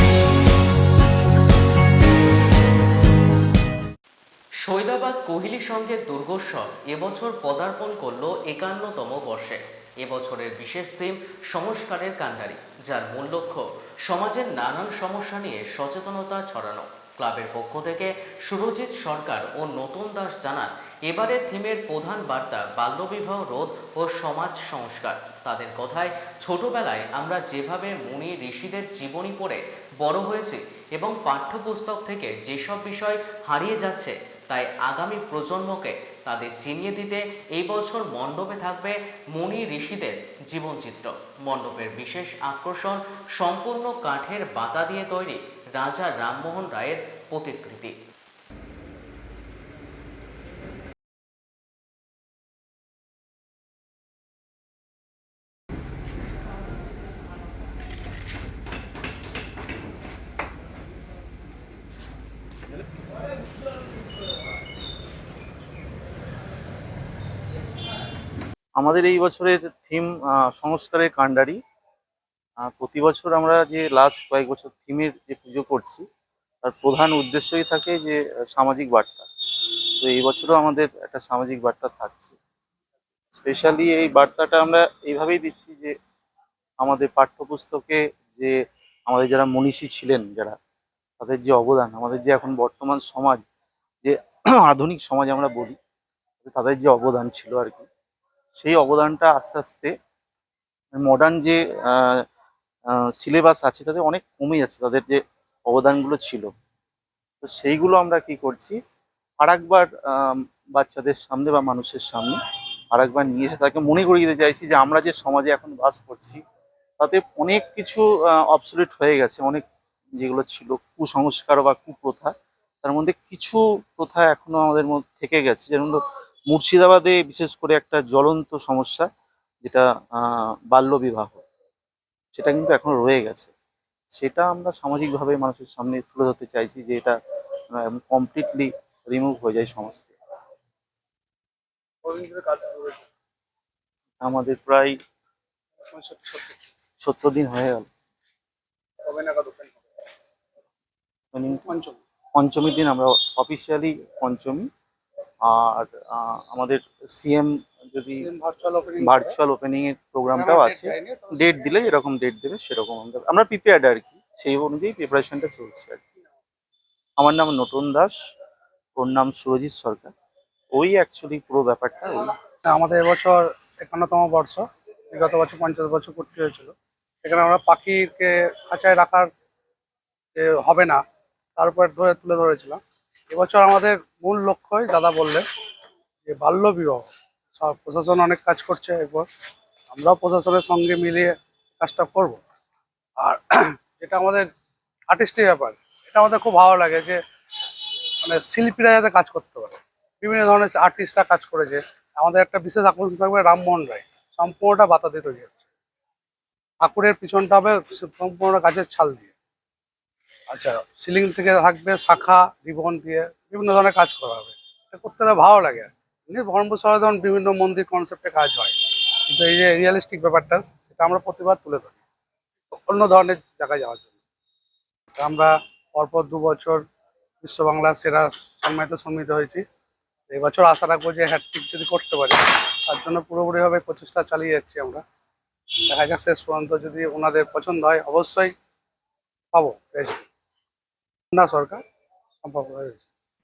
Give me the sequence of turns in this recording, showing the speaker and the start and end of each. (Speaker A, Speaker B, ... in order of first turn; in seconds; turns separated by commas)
Speaker A: 4.7-47.9, Speaker B: 68.8-71.6, Speaker B: 72.6-76.0, Speaker B: 76.6-79.3, Speaker B: 80.0-82.4, Speaker B: 83.3-85.9, Speaker B: 86.8-88.6, Speaker B: 89.1-90.6, Speaker B: 91.2-93.5, Speaker B: 94.0-95.8, Speaker B: 96.4-97.9, Speaker B: 98.6-99.9, Speaker B: 101.0-102.2, Speaker B: 102.9-106.5, Speaker B: 107.4-108.8, Speaker B: 109.4-112.4, Speaker B: 112.9-116.4, Speaker B: 117.0-119.6, Speaker B: 120.2-122.3, Speaker B: 122.8-129.1, Speaker B: 129.6-131.4, Speaker B: 132.3-133.5, Speaker B: 134.1-137.2, Speaker B: 137.7-140.1, Speaker C: 142.0-143.1, Speaker B: 144.2-144.9, Speaker C: 145.8-146.7, Speaker B: 147.0-147.9, Speaker C: 149.0-149.8, Speaker B: 151.3-151.7, Speaker C: 151.7-152.0, Speaker B: 152.4-154.7, Speaker B: 155.4-158.2, Speaker C: 158.2-159.3, Speaker B: 159.0-166.0, Speaker C: 160.3-161.6, Speaker B: 167.2-168.2, Speaker B: 169.0-170.1, Speaker B: 170.7-172.3, Speaker C: 172.7-179.3, Speaker C: 180.3-181.0, Speaker C: 181.6-185.5, Speaker C: 186.3-189.3, Speaker C: 189.9-192.4, Speaker C: 193.2-194.5, Speaker C: 195.1-197.2, Speaker C: 198.2-205.7, Speaker C: 206.8-209.3, Speaker C: 210.5-222.0, Speaker C: 222.9-224.1, Speaker C: 225.1-226.8, Speaker C: 227.4-229.7, Speaker C: 230.3-235.0, Speaker C: 235.9-238.5, Speaker C: 239.5-240.3, Speaker C: 241.3-241.8, Speaker C: 242.4-243.1